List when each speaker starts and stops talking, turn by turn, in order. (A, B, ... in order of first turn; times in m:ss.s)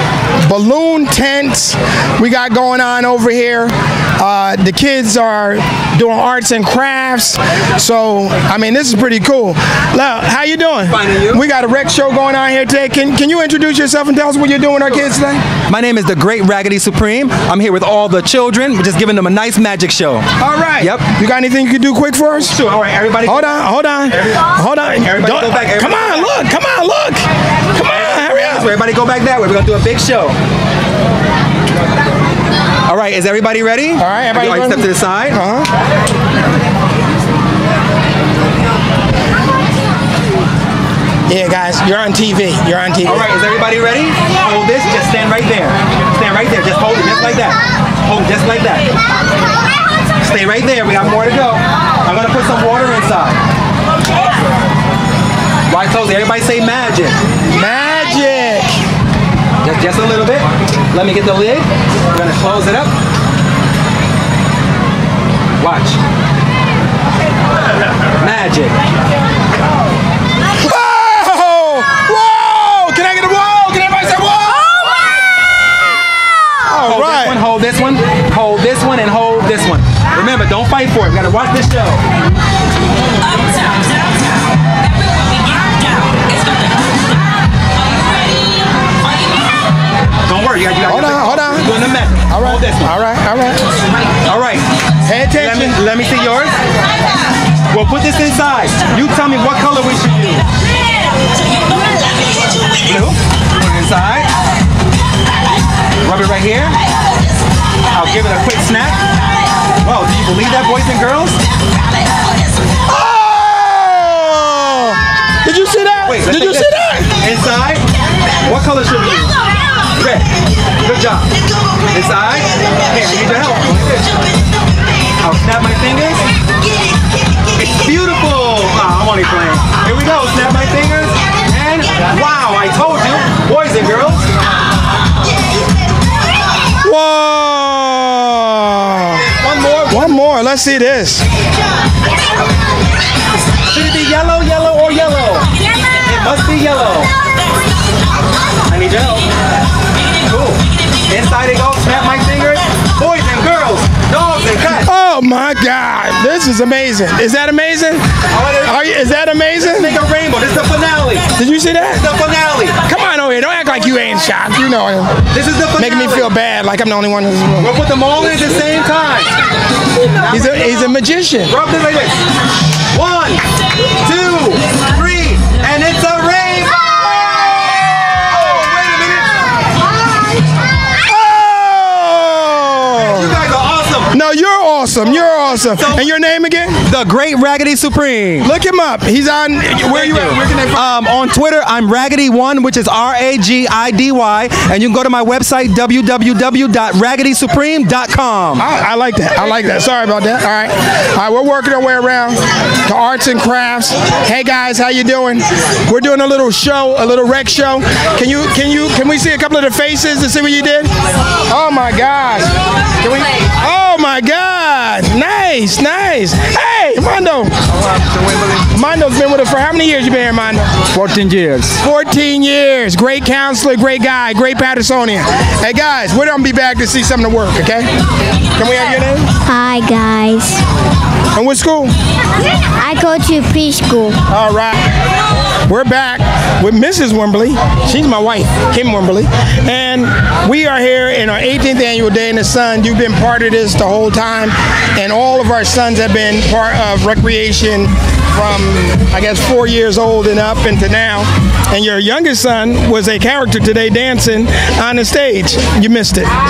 0:00.4-0:15.4 A
0:16.1-0:16.9 B
0:17.6-0:20.1 B
0:20.4-0:22.6 A
0:22.6-0:23.6 B
0:23.2-0:27.2 A
0:25.1-0:26.1 B
0:27.7-0:28.7 A
0:28.2-0:30.3 B
0:32.9-0:35.2 B
0:34.0-0:35.7 A
0:41.3-0:43.3 A
0:43.1-0:47.5 B
0:48.1-0:48.8 B
0:50.3-0:53.4 B
0:55.7-0:57.1 B
0:57.5-0:58.8 A
0:59.6-1:00.4 B
1:00.9-1:01.6 B
1:02.2-1:02.9 B
1:05.6-1:05.9 B
1:08.2-1:08.7 B
1:10.6-1:15.1 A
1:16.6-1:17.4 A
1:16.9-1:22.0 B
1:30.3-1:32.7 B
1:30.9-1:31.8 A
1:32.3-1:33.6 A
1:34.3-1:34.6 B
1:35.1-1:35.8 A
1:35.4-1:36.5 B
1:37.7-1:40.4 B
1:43.6-1:44.2 B
1:46.1-1:46.7 B
1:48.0-1:49.0 B
1:49.9-1:51.4 B
1:52.9-1:57.1 A
1:56.1-1:56.6 B
1:57.2-1:57.8 B
1:58.5-1:59.3 B
2:00.9-2:01.2 B
2:02.0-2:02.4 B
2:03.0-2:04.0 B
2:05.2-2:06.2 B
2:07.9-2:11.1 B
2:11.6-2:14.2 B
2:16.8-2:19.2 A
2:19.6-2:19.9 B
2:19.9-2:21.2 A
2:23.8-2:25.4 B
2:26.1-2:27.1 B
2:28.7-2:29.2 B
2:30.3-2:30.6 B
2:31.1-2:34.8 B
2:34.8-2:38.0 A
2:38.6-2:40.0 A
2:39.8-2:41.2 B
2:41.4-2:42.1 A
2:42.0-2:42.7 B
2:42.8-2:45.1 A
2:45.4-2:46.2 B
2:45.8-2:47.7 A
2:47.7-2:49.3 B
2:50.3-2:51.6 A
2:51.5-2:52.1 B
2:53.0-2:53.4 B
2:54.0-2:56.7 B
2:58.7-2:59.2 B
3:01.0-3:03.4 A
3:03.3-3:04.0 B
3:04.1-3:06.8 A
3:06.9-3:08.4 B
3:08.4-3:10.9 A
3:10.8-3:18.5 B
3:18.6-3:30.9 A
3:31.5-3:32.5 A
3:33.6-3:37.5 A
3:38.7-3:40.7 A
3:41.8-3:47.9 A
3:48.6-3:49.3 A
3:49.5-3:50.6 C
3:51.4-3:51.9 A
3:52.8-3:54.2 C
3:54.3-3:54.8 A
3:55.7-4:16.3 A